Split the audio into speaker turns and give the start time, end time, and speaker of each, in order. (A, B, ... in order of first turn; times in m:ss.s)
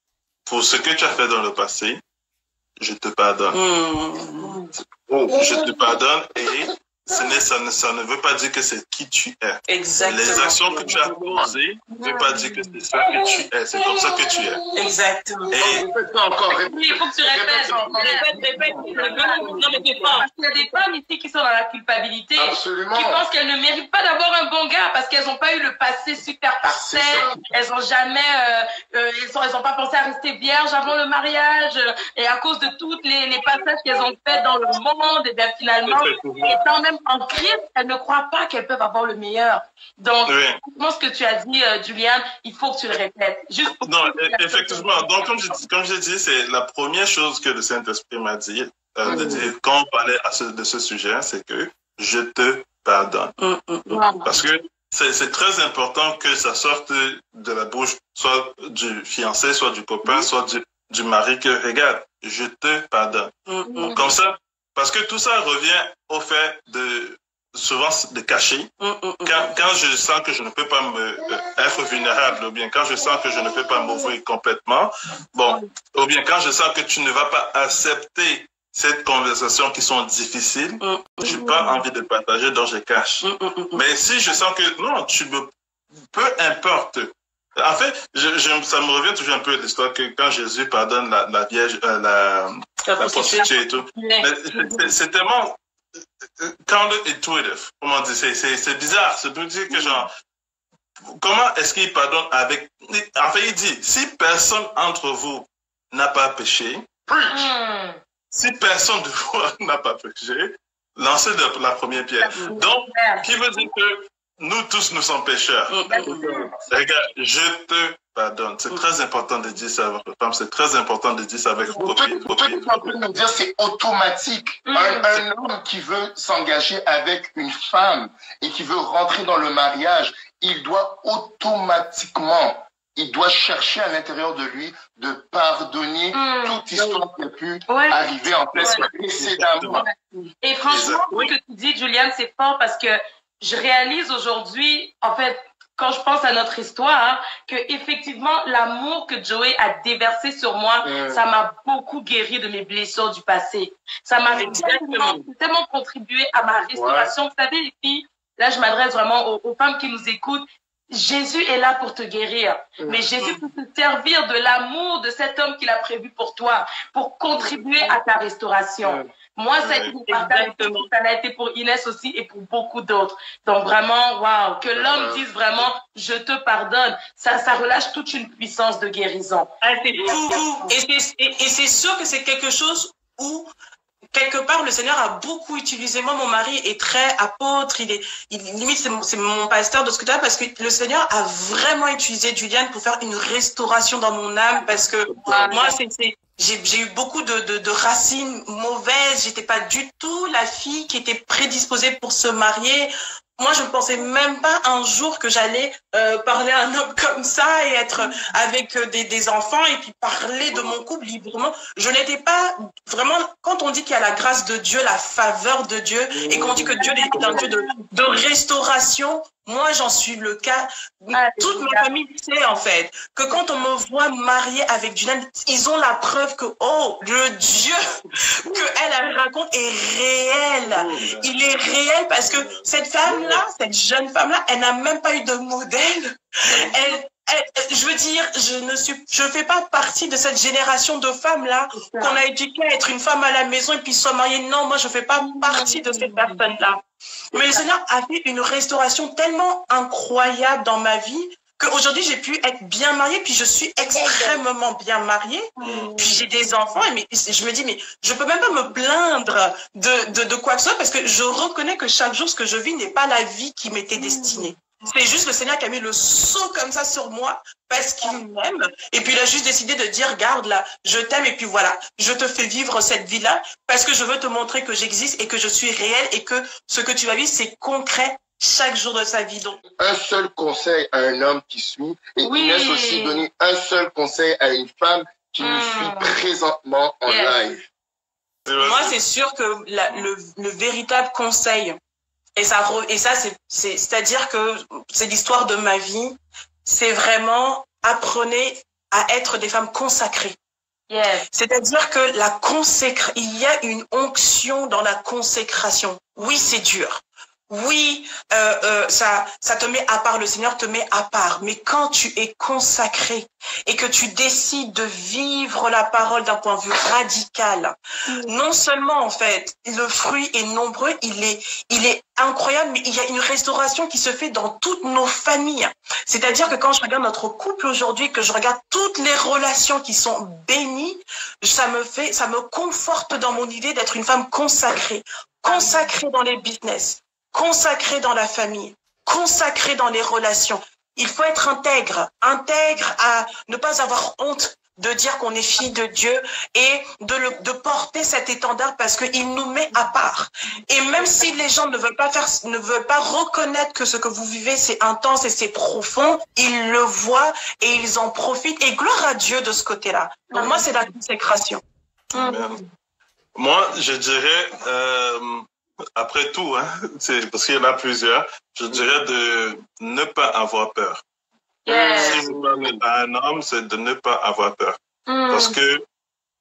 0:00.4-0:02.0 A
0:02.8-0:03.6 A
0:03.5-0:04.6 B
0:05.1-0:14.6 A
0:09.7-0:11.0 B
0:10.5-0:11.5 C
0:11.9-0:12.4 B
0:14.7-0:15.6 B
0:15.5-0:15.8 A
0:15.5-0:19.9 C
0:16.6-0:45.3 D
0:17.7-0:20.2 B
0:22.4-0:23.2 C
0:26.6-0:27.4 C
0:35.8-0:36.6 A
0:40.2-0:40.6 A
0:43.8-0:53.3 A
0:49.0-0:49.4 C
0:49.1-0:49.4 D
0:53.4-0:54.0 B
0:53.9-0:54.3 D
0:54.2-1:08.7 A
1:03.5-1:04.0 B
1:03.6-1:04.0 D
1:08.8-1:09.6 B
1:09.2-1:25.5 A
1:20.8-1:21.5 B
1:23.2-1:23.8 B
1:26.1-1:35.6 A
1:32.9-1:33.5 B
1:32.9-1:34.9 D
1:36.4-1:40.1 A
1:39.7-1:40.0 D
1:41.2-1:46.8 A
1:47.1-1:47.5 C
1:47.3-1:48.0 D
1:48.3-1:55.8 A
1:52.3-1:53.2 D
1:55.7-1:56.2 B
1:55.8-1:56.6 D
1:56.0-1:56.5 C
1:56.7-2:02.7 A
2:01.7-2:19.8 C
2:04.6-2:05.1 D
2:16.1-2:17.0 D
2:17.7-2:18.0 D
2:18.5-2:19.9 A
2:18.6-2:18.9 D
2:19.7-2:59.5 D
2:20.7-2:21.3 A
2:30.8-2:31.2 C
2:34.4-2:34.6 A
2:34.4-2:35.1 B
2:36.7-2:37.1 C
2:42.8-2:43.0 C
2:49.6-2:49.9 A
2:50.1-2:50.9 B
2:54.7-2:55.6 C
2:59.6-3:03.5 B
3:00.0-3:00.4 C
3:00.0-3:00.7 D
3:04.1-3:47.8 B
3:14.5-3:15.8 D
3:15.1-3:15.4 C
3:36.1-3:37.5 C
3:36.8-3:37.8 D
3:41.1-3:41.9 D
3:48.4-4:06.8 B
3:50.7-3:51.1 C
3:51.0-3:51.3 A
3:52.3-3:53.4 A
4:01.7-4:02.2 D
4:05.2-4:06.4 D
4:07.3-4:39.6 B
4:07.3-4:07.6 D
4:14.0-4:14.4 D
4:15.6-4:16.2 D
4:24.0-4:24.4 D
4:39.8-4:47.6 C
4:42.2-4:43.2 D
4:45.4-4:46.2 D
4:47.0-4:47.4 D
4:48.4-4:49.0 A
4:48.6-4:51.8 B
4:52.4-5:00.4 B
5:00.9-5:01.2 D
5:01.3-6:01.6 B
5:18.1-5:18.4 D
5:26.3-5:26.5 D
5:35.4-5:35.9 D
6:00.3-6:00.7 D
6:02.1-6:02.5 D
6:02.1-6:02.6 A
6:03.3-6:11.0 A
6:11.6-6:12.2 D
6:11.7-6:12.5 C
6:11.7-6:14.8 A
6:15.1-6:15.6 D
6:15.3-6:15.8 A